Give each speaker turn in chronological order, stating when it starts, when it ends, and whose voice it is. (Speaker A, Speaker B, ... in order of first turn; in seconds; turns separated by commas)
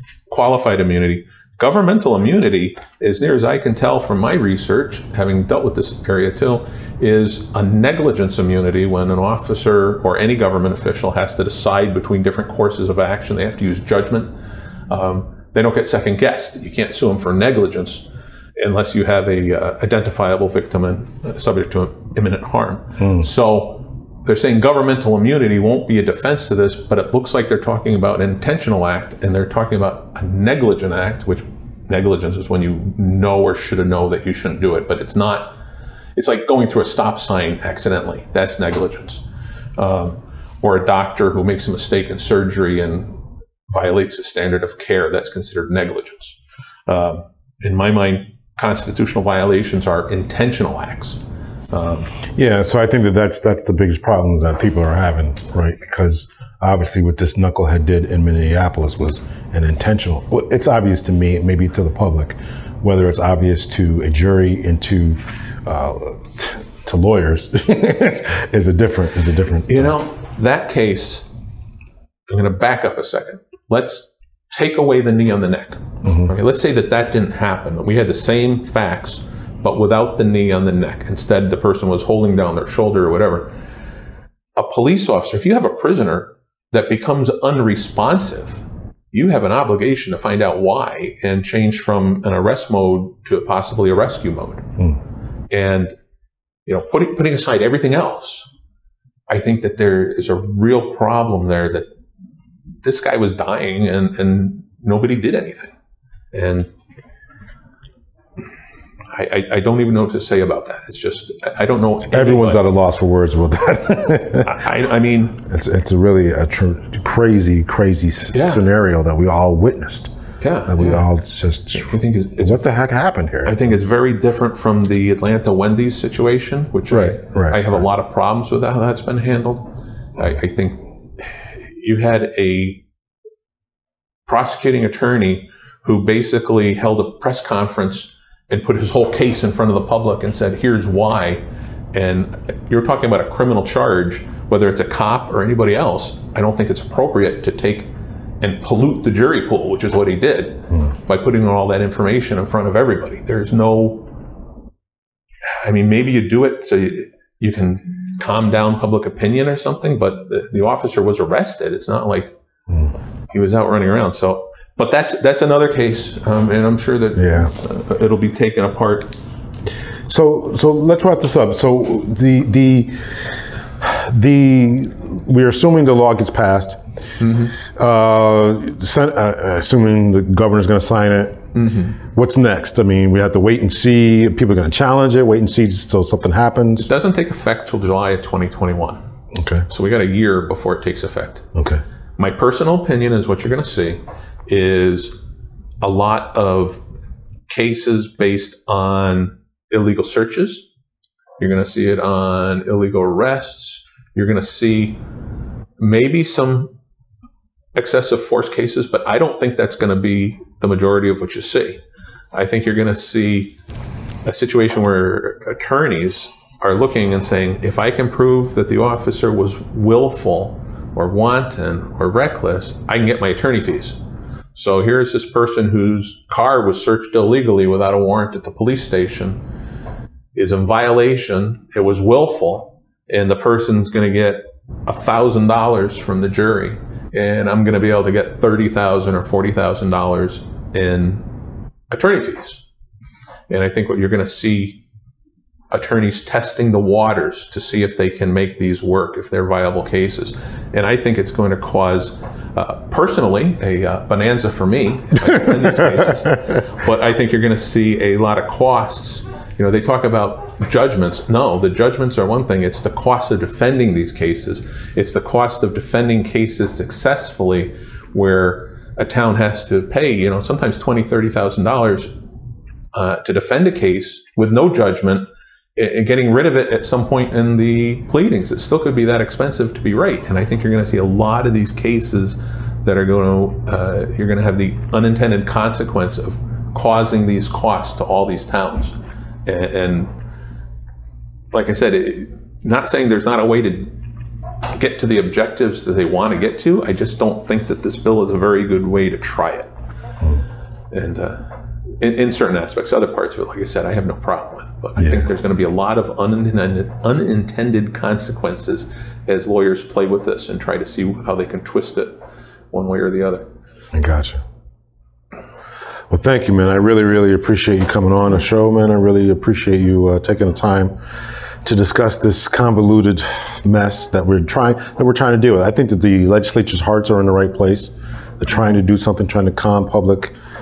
Speaker A: 0.3-14.3, Speaker A: 14.9-18.1, Speaker A: 18.6-35.5, Speaker B: 23.0-23.2, Speaker A: 36.2-39.2, Speaker A: 39.8-43.2, Speaker A: 43.7-52.1, Speaker B: 52.4-70.0, Speaker A: 69.7-71.3, Speaker A: 72.3-83.5, Speaker B: 76.0-76.3, Speaker A: 84.6-94.7, Speaker A: 95.5-95.9, Speaker A: 96.7-98.5, Speaker A: 99.3-101.9, Speaker A: 102.8-105.8, Speaker A: 106.3-106.7, Speaker A: 109.1-112.6, Speaker B: 112.1-114.6, Speaker A: 114.4-115.4, Speaker B: 115.4-120.1, Speaker A: 118.3-118.6, Speaker A: 120.4-121.1, Speaker B: 120.7-123.6, Speaker A: 121.7-122.6, Speaker A: 123.5-132.8, Speaker B: 126.9-127.6, Speaker A: 134.3-154.1, Speaker A: 155.6-162.3, Speaker A: 163.3-169.2, Speaker B: 167.2-167.5, Speaker B: 170.1-173.2, Speaker B: 173.8-176.8, Speaker A: 177.2-177.6, Speaker B: 177.6-181.5, Speaker A: 181.6-182.0, Speaker B: 182.0-186.9, Speaker A: 186.8-189.0, Speaker B: 189.3-189.7, Speaker A: 189.7-191.5, Speaker B: 191.6-191.8, Speaker A: 192.2-195.1, Speaker A: 195.8-196.8, Speaker A: 197.5-200.7, Speaker A: 201.4-205.0, Speaker A: 205.8-206.8, Speaker A: 207.8-211.8, Speaker A: 212.3-213.5, Speaker A: 214.2-224.0, Speaker A: 224.6-229.4, Speaker A: 230.3-241.3, Speaker A: 241.9-242.6, Speaker A: 243.5-244.8, Speaker A: 245.7-272.1, Speaker A: 272.9-290.1, Speaker A: 291.5-294.0, Speaker A: 294.7-299.7, Speaker A: 300.9-301.5, Speaker A: 302.0-312.2, Speaker B: 305.0-305.3, Speaker A: 312.7-313.5, Speaker B: 313.9-314.4, Speaker B: 316.1-320.9, Speaker B: 321.6-330.3